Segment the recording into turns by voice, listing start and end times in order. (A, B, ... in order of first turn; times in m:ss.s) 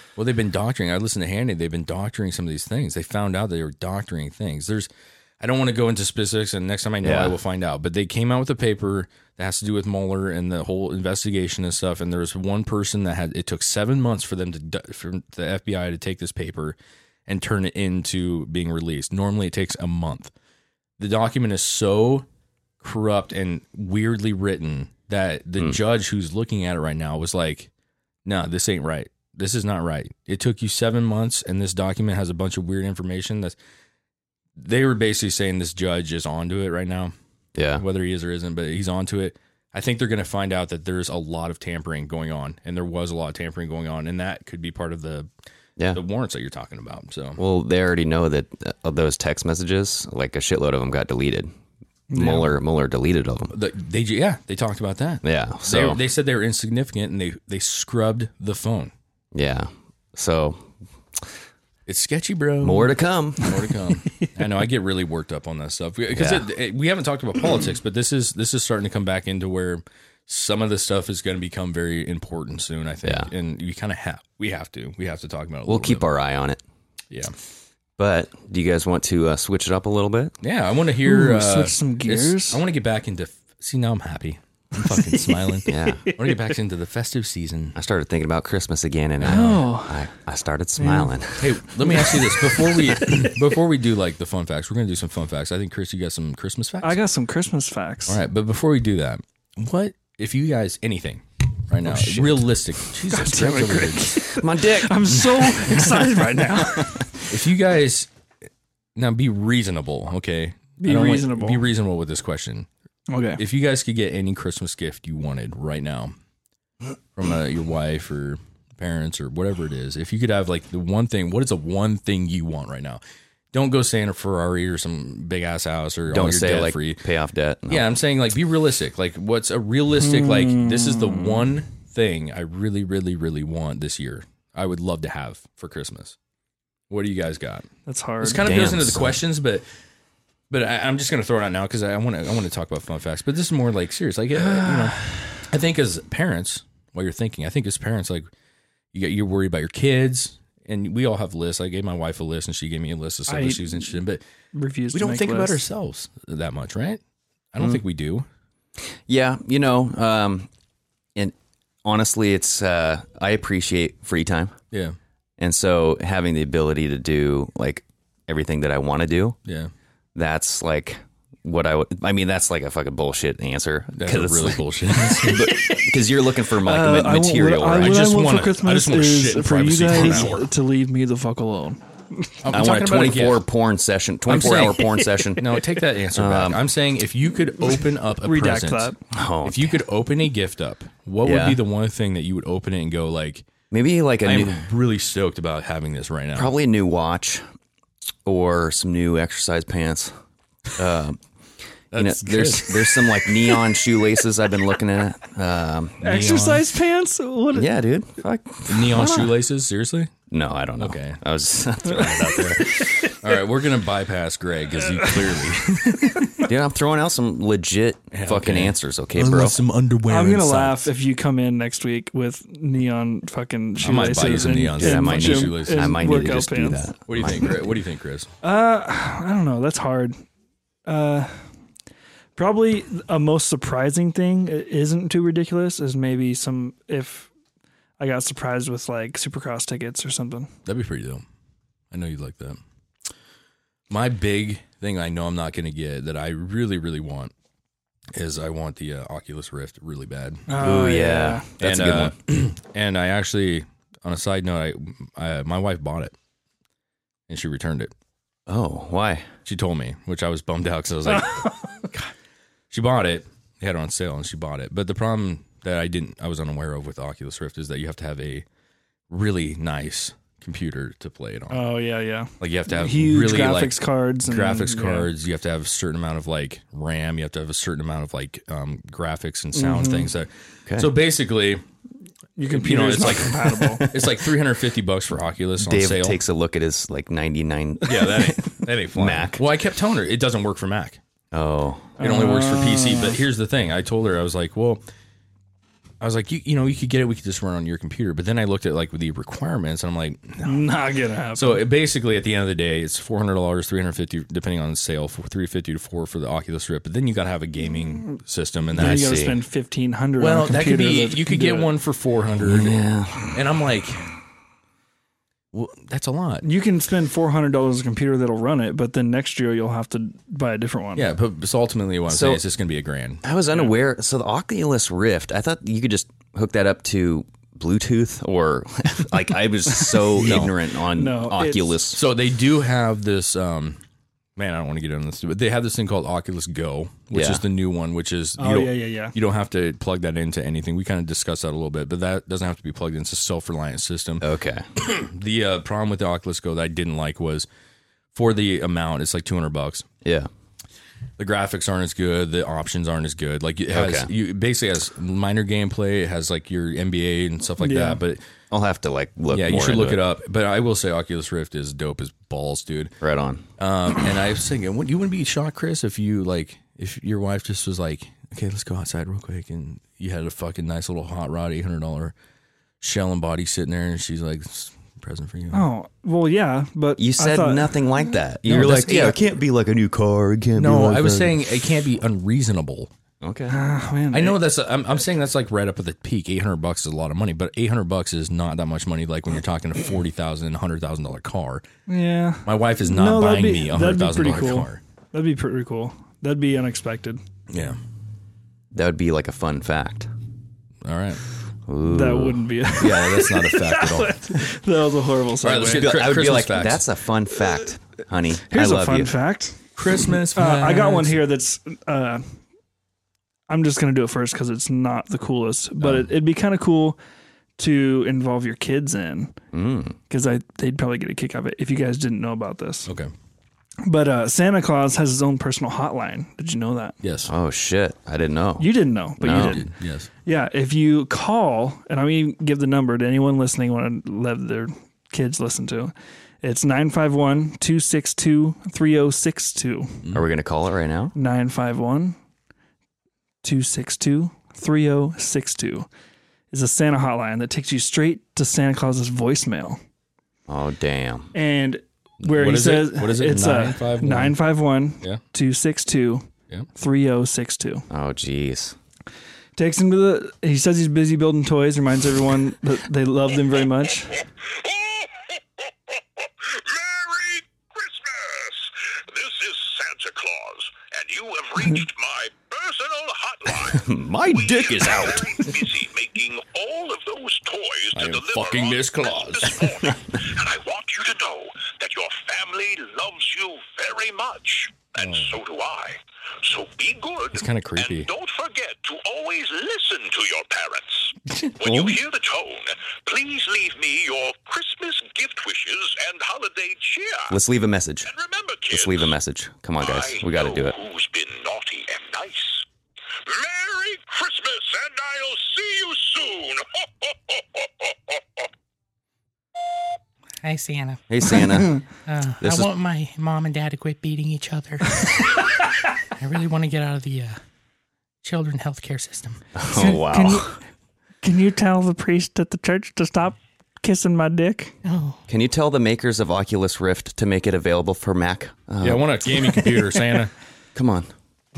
0:00.2-0:04.9 A
0:05.4-0:20.3 A
0:07.0-0:07.4 B
0:21.0-0:22.2 A
0:22.8-0:27.7 A
0:28.2-0:33.5 A
0:34.6-0:37.1 A
0:37.6-0:37.8 B
0:37.8-0:45.3 A
0:45.9-0:47.4 A
0:47.4-0:51.5 B
0:52.1-0:52.4 C
0:52.1-0:53.5 B
0:53.5-0:58.9 A
0:55.2-0:56.0 B
0:59.3-1:01.3 B
1:01.9-1:16.0 A
1:02.6-1:03.6 B
1:06.1-1:06.5 B
1:13.0-1:13.3 B
1:15.7-1:16.6 B
1:18.0-1:20.3 B
1:20.4-1:27.7 A
1:21.0-1:22.6 C
1:24.8-1:26.3 C
1:25.7-1:26.1 B
1:27.7-1:31.9 B
1:29.2-1:29.5 A
1:29.2-1:30.0 C
1:30.8-1:31.1 C
1:31.4-1:37.0 A
1:31.8-1:33.2 C
1:36.8-1:38.2 C
1:38.1-1:44.2 A
1:41.9-1:42.2 B
1:43.1-1:47.3 C
1:44.3-1:47.0 B
1:45.1-1:45.7 A
1:47.3-1:48.1 A
1:49.0-1:52.7 A
1:50.8-1:51.6 C
1:53.1-1:53.4 C
1:53.4-1:56.1 A
1:57.2-2:03.0 A
2:03.5-2:07.0 A
2:06.1-2:07.8 B
2:07.7-2:16.2 A
2:10.0-2:11.5 C
2:16.9-2:17.7 A
2:17.9-2:18.5 C
2:18.2-2:19.6 A
2:18.3-2:19.2 B
2:20.5-2:28.3 A
2:24.4-2:25.4 C
2:28.9-2:34.2 A
2:33.3-2:33.9 C
2:34.5-2:35.6 C
2:34.9-2:37.0 A
2:37.5-2:38.2 A
2:39.1-2:40.5 B
2:41.1-2:44.5 B
2:45.4-2:49.4 B
2:49.4-2:49.7 A
2:50.1-2:58.1 B
2:53.9-2:55.7 A
2:56.6-3:02.3 C
2:57.7-3:00.5 A
3:02.4-3:03.4 A
3:02.5-3:05.6 B
3:04.3-3:08.9 A
3:06.1-3:06.6 B
3:08.2-3:09.0 C
3:09.1-3:09.8 B
3:09.4-3:13.5 A
3:11.2-3:11.6 B
3:13.7-3:14.6 B
3:14.2-3:16.5 A
3:16.3-3:17.4 B
3:18.2-3:20.1 B
3:20.8-3:21.2 B
3:21.9-3:23.4 A
3:21.9-3:26.0 B
3:26.0-3:26.7 A
3:26.0-3:27.7 C
3:27.5-3:29.3 B
3:28.7-3:30.1 A
3:30.3-3:33.0 B
3:30.8-3:31.2 A
3:32.3-3:32.6 A
3:33.2-3:36.4 A
3:36.4-3:39.6 B
3:38.1-3:40.9 A
3:40.1-3:46.8 C
3:43.8-3:46.1 A
3:44.8-3:47.8 B
3:47.1-3:48.3 A
3:48.4-3:50.2 C
3:50.8-3:51.4 C
3:52.4-3:57.3 C
3:58.0-4:00.5 C
4:00.6-4:01.2 A
4:01.9-4:02.6 A
4:03.9-4:07.3 A
4:08.1-4:10.5 A
4:10.5-4:11.5 C
4:10.6-4:12.2 B
4:11.6-4:16.1 A
4:17.3-4:17.9 A
4:18.5-4:19.3 B
4:19.4-4:22.1 A
4:21.1-4:21.5 C
4:22.7-4:28.4 A
4:29.1-4:31.6 A
4:31.5-4:35.1 C
4:32.4-4:41.6 A
4:39.5-4:40.1 C
4:42.4-4:43.9 C
4:42.5-4:46.2 A
4:45.6-4:49.4 B
4:47.8-4:51.0 A
4:51.3-4:51.9 B
4:52.0-4:53.2 C
4:52.0-4:54.8 A
4:56.0-5:00.7 A
5:00.4-5:01.6 C
5:01.3-5:09.2 A
5:08.7-5:11.7 C
5:08.7-5:09.4 B
5:10.2-5:12.8 A
5:12.4-5:13.4 B
5:13.3-5:14.1 A
5:15.5-5:16.4 A
5:16.4-5:21.0 C
5:20.9-5:23.2 A
5:22.1-5:22.4 B
5:23.2-5:32.0 B
5:30.2-5:30.5 A
5:30.9-5:31.7 C
5:31.9-5:33.8 A
5:34.4-5:44.2 A
5:37.1-5:37.4 B
5:38.4-5:39.1 C
5:44.2-5:44.7 B
5:44.8-5:47.5 A
5:48.1-5:49.8 A
5:50.0-5:50.3 B
5:51.2-5:58.2 A
5:53.7-5:54.1 B
5:57.6-5:58.0 C
5:58.5-6:00.0 B
5:59.3-6:02.9 A
6:03.0-6:03.4 B
6:03.6-6:12.1 A
6:12.8-6:15.7 A
6:15.5-6:17.8 C
6:17.0-6:21.4 B
6:18.4-6:19.2 A
6:20.6-6:22.9 A
6:23.2-6:23.6 B
6:23.5-6:24.4 C
6:24.1-6:31.6 A
6:31.9-6:37.2 C
6:32.4-6:34.8 A
6:37.5-6:37.8 A
6:38.7-6:40.1 B
6:40.8-6:41.2 A
6:41.7-6:42.5 B
6:41.8-6:46.0 C
6:42.8-6:44.4 A
6:45.4-6:46.8 A
6:45.7-6:49.2 B
6:48.5-6:52.4 C
6:49.8-6:51.2 A
6:53.5-6:57.0 C
6:55.8-6:56.1 A
6:57.6-6:59.3 C
6:59.5-7:00.0 B
7:00.1-7:02.9 C
7:02.8-7:03.1 A
7:03.8-7:07.0 C
7:07.0-7:07.3 A
7:07.2-7:09.6 B
7:08.6-7:09.7 C
7:09.2-7:10.1 A
7:10.2-7:20.0 C
7:20.1-7:21.1 B
7:21.1-7:22.2 C
7:23.4-7:25.9 C
7:26.5-7:29.8 C
7:30.5-7:31.3 B
7:31.3-7:37.8 C
7:32.2-7:34.4 A
7:37.9-7:38.8 B
7:39.6-7:44.2 C
7:44.4-8:17.4 D
7:53.5-7:55.6 B
7:57.9-7:59.7 A
7:59.9-8:00.2 B
8:05.0-8:05.3 A
8:07.3-8:08.1 A
8:11.6-8:12.0 B
8:17.3-8:18.1 B
8:18.0-8:19.1 D
8:18.7-8:20.8 B
8:19.8-8:22.6 D
8:23.2-8:28.5 D
8:30.4-8:31.0 E
8:31.1-8:31.8 B
8:32.1-8:35.2 E
8:32.4-8:32.7 B
8:36.2-8:37.4 E
8:38.2-8:39.3 E
8:39.5-8:40.6 B
8:39.7-8:40.6 C
8:41.2-8:44.8 C
8:44.9-8:45.2 E
8:45.3-8:49.0 B
8:48.8-8:50.3 A
8:50.7-8:51.1 B